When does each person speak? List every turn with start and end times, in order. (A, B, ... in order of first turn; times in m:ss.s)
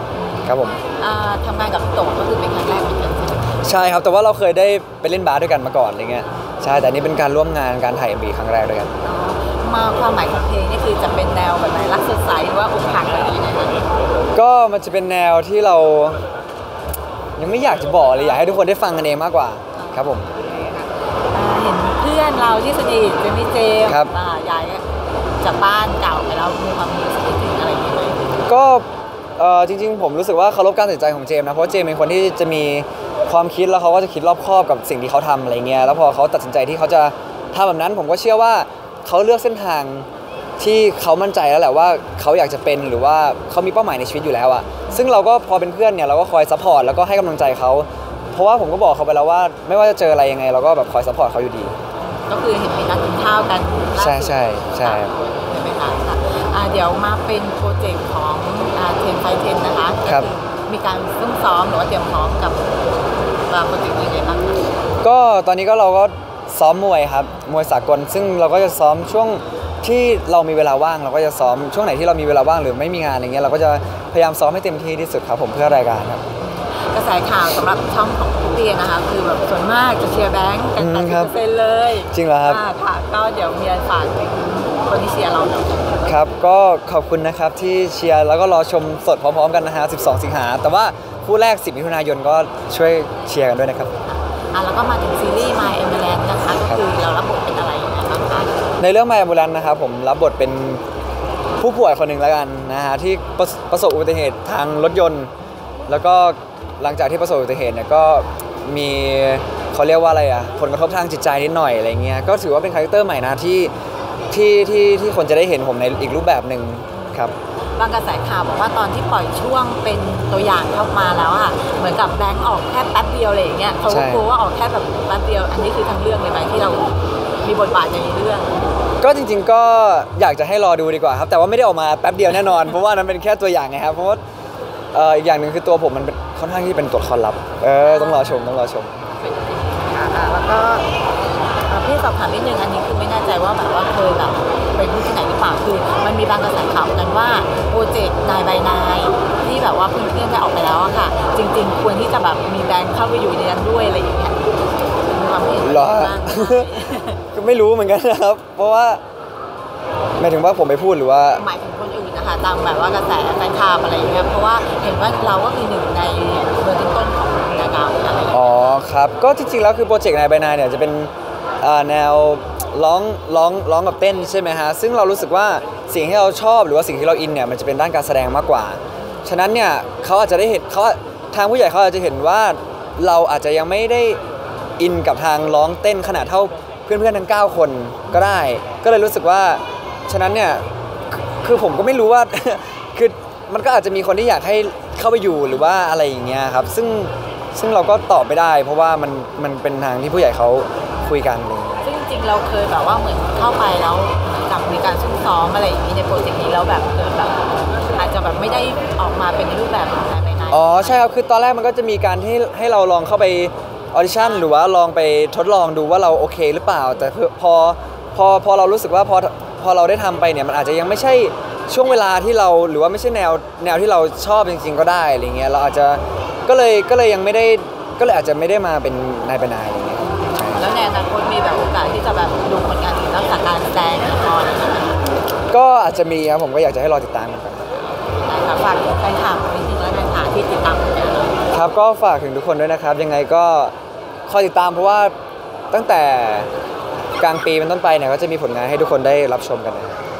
0:00.2-0:03.6 A
0:00.4-0:00.8 B
0:03.6-0:08.9 B
0:09.0-0:13.8 A
0:14.4-0:16.2 B
0:17.4-0:20.3 B
0:19.8-0:24.8 A
0:23.8-0:24.1 B
0:25.4-0:28.3 A
0:28.5-0:28.8 B
0:29.4-0:40.1 B
0:40.6-0:51.8 B
0:52.1-1:02.8 A
0:54.0-0:55.1 B
1:03.5-1:04.7 A
1:05.0-1:16.2 B
1:16.4-1:26.1 A
1:20.8-1:21.4 B
1:22.1-1:22.6 B
1:26.1-1:33.9 B
1:34.1-1:38.6 A
1:38.8-1:40.8 B
1:41.6-1:45.3 B
1:45.9-1:53.7 B
1:54.3-1:57.4 B
1:57.8-2:08.5 A
2:03.9-2:04.3 B
2:09.0-2:14.2 B
2:14.9-2:19.0 B
2:17.8-2:18.6 A
2:19.2-2:20.9 A
2:21.7-2:37.2 A
2:35.6-2:36.7 B
2:37.4-2:39.0 B
2:40.2-2:41.4 B
2:41.4-2:48.8 A
2:45.0-2:45.4 B
2:48.3-3:04.2 B
2:59.0-2:59.3 A
3:04.8-3:10.6 B
3:11.2-3:21.8 B
3:21.8-3:31.0 A
3:30.5-3:50.7 B
3:34.1-3:34.4 A
3:50.0-3:54.9 A
3:55.5-3:57.7 B
3:57.8-4:01.4 A
4:01.5-4:03.7 B
4:04.3-4:05.1 B
4:05.7-4:06.5 B
4:07.2-4:10.0 B